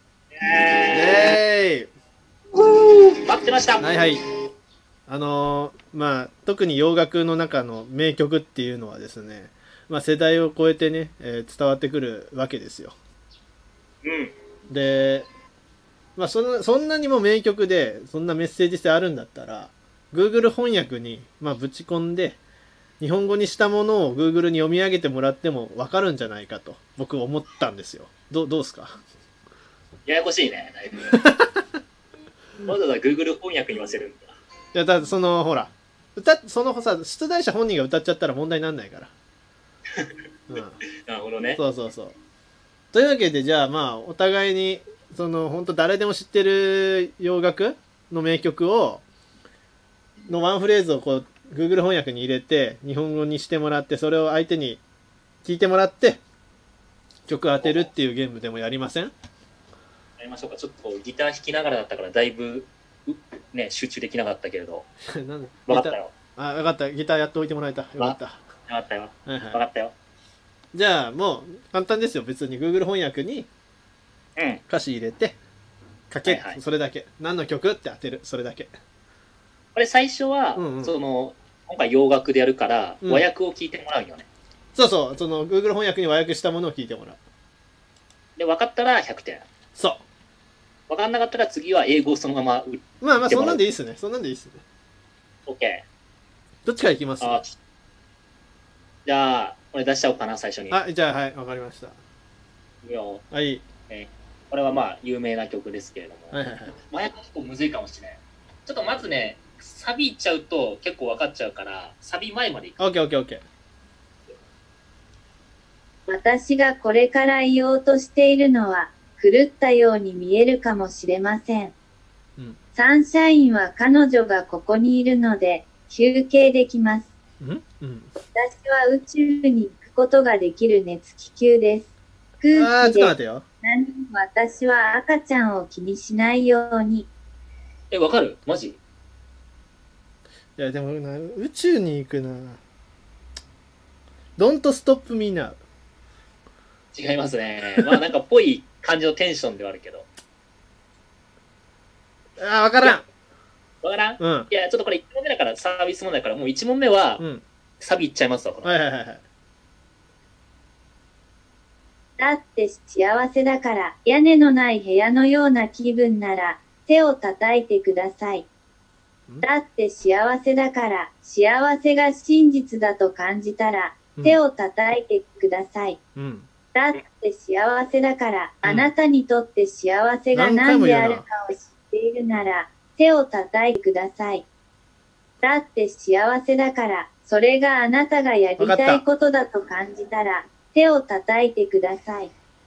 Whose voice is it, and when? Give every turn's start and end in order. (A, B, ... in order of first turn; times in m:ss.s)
0:00.4-0:01.4 A
0:00.9-0:01.9 B
0:02.6-0:03.8 A
0:03.8-0:04.2 B
0:05.1-0:12.9 B
0:14.0-0:14.3 A
0:14.7-0:15.3 B
0:16.2-0:22.4 B
0:23.0-0:29.0 B
0:30.1-0:31.2 A
0:31.1-0:31.4 B
0:32.6-0:34.4 A
0:34.7-0:39.1 B
0:40.5-0:40.8 B
0:41.0-0:41.6 A
0:41.5-0:42.2 B
0:42.9-0:49.0 B
0:50.3-0:54.8 B
0:55.4-0:56.2 B
0:57.3-0:59.1 B
0:57.6-0:57.9 A
1:00.2-1:04.9 A
1:05.1-1:08.4 B
1:05.7-1:06.1 A
1:08.0-1:09.9 A
1:09.3-1:09.6 B
1:10.7-1:13.5 B
1:14.7-1:15.4 B
1:16.1-1:18.7 B
1:16.2-1:16.6 A
1:19.8-1:24.3 A
1:20.6-1:21.0 B
1:24.8-1:27.2 B
1:28.4-1:29.5 A
1:29.8-1:30.0 B
1:30.9-1:33.6 A
1:33.0-1:34.6 B
1:35.5-1:35.9 A
1:36.7-1:37.4 B
1:37.2-1:37.6 A
1:39.1-1:40.8 A
1:40.7-1:42.0 B
1:42.8-1:43.2 A
1:43.3-1:43.6 B
1:43.9-1:52.8 A
1:46.3-1:46.8 B
1:52.8-1:53.4 B
1:56.1-2:01.7 C
2:02.8-2:07.1 C
2:07.4-2:08.1 B
2:08.4-2:11.9 C
2:12.4-2:17.1 C
2:12.5-2:13.4 B
2:17.9-2:18.8 A
2:20.6-2:22.6 B
2:24.4-2:25.6 B
2:26.9-2:30.1 A
2:32.4-2:33.0 B
2:33.8-2:37.2 A
2:34.2-2:34.5 B
2:37.8-2:38.8 A
2:38.6-2:39.2 B
2:42.2-2:48.5 C
2:49.4-2:56.0 C
2:56.2-2:56.5 B
2:56.7-3:04.4 C
3:00.3-3:01.2 B
3:05.4-3:12.3 C
3:08.6-3:09.0 B